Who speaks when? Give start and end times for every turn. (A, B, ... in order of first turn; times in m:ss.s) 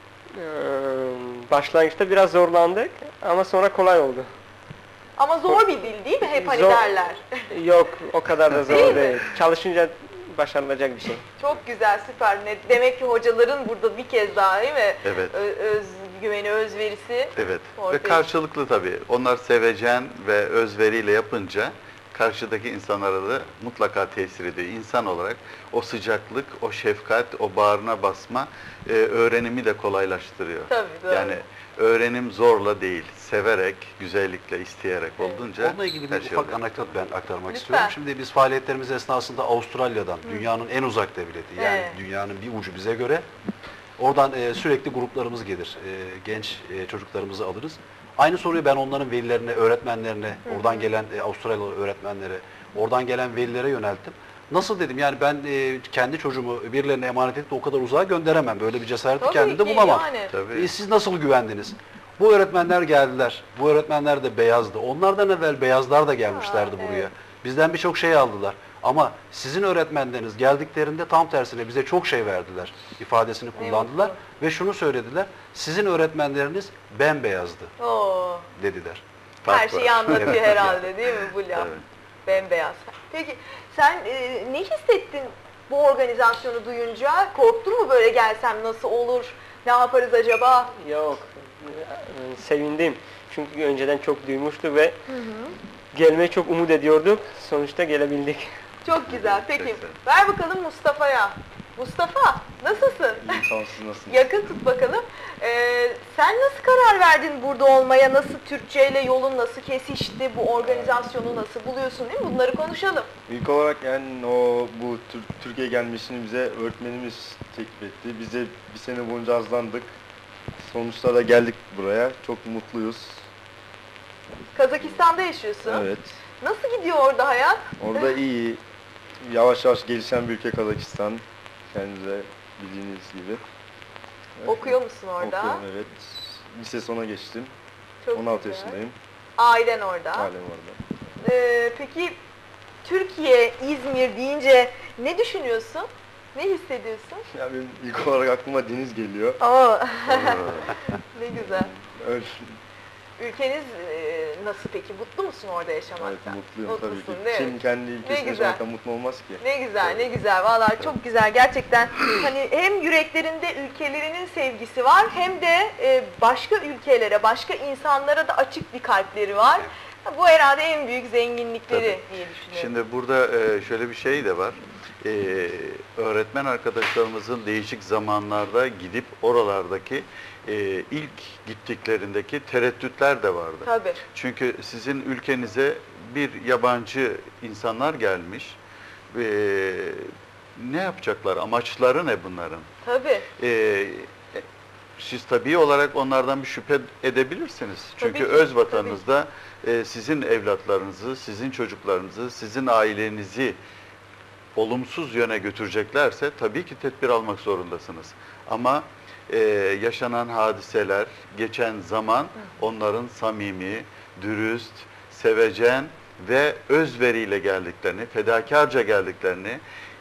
0:00.4-0:04.3 A
0:05.2-0:07.5 B
0:06.2-0:06.9 A
0:07.5-0:11.2 A
0:08.7-0:09.2 B
0:11.4-0:18.3 B
0:15.0-0:15.3 C
0:17.4-0:36.6 C
0:30.7-0:31.4 B
0:35.2-0:35.5 B
0:35.6-0:43.2 D
0:37.5-0:38.0 B
0:40.2-0:40.5 B
0:41.6-0:42.0 B
0:44.0-1:18.0 D
0:50.4-0:50.9 B
0:59.2-1:00.3 B
1:00.3-1:00.7 C
1:06.2-1:07.1 B
1:13.5-1:14.2 B
1:17.8-1:18.5 B
1:18.6-1:19.0 D
1:19.4-1:22.4 C
1:19.5-1:21.7 B
1:20.2-1:20.7 D
1:22.2-1:30.7 B
1:30.8-1:35.0 A
1:35.1-1:35.6 B
1:35.9-1:38.5 A
1:38.8-1:43.4 B
1:39.0-1:40.0 C
1:43.2-1:44.3 E
1:44.1-1:53.1 B
1:50.6-1:51.1 E
1:53.3-1:59.9 E
2:00.6-2:03.3 E
2:04.5-2:05.8 B
2:05.6-2:06.2 E
2:06.4-2:08.0 B
2:07.8-2:08.6 E
2:09.2-2:13.4 E
2:14.4-2:17.5 E
2:14.4-2:15.6 B
2:18.0-2:18.8 B
2:18.1-2:19.0 E
2:19.4-2:20.3 B
2:20.1-2:20.8 E
2:21.2-2:22.2 B
2:22.8-2:27.2 B
2:27.3-2:29.4 E
2:29.4-2:31.7 B
2:30.1-2:30.7 C
2:31.4-2:32.5 E
2:33.2-2:38.6 B
2:36.0-2:40.1 E
2:39.4-2:52.7 B
2:51.7-3:08.6 C
3:03.6-3:04.0 B
3:09.1-3:12.7 C
3:12.8-3:13.3 B
3:13.3-3:14.4 C
3:15.0-3:23.6 C
3:18.0-3:19.0 B
3:24.6-3:39.6 C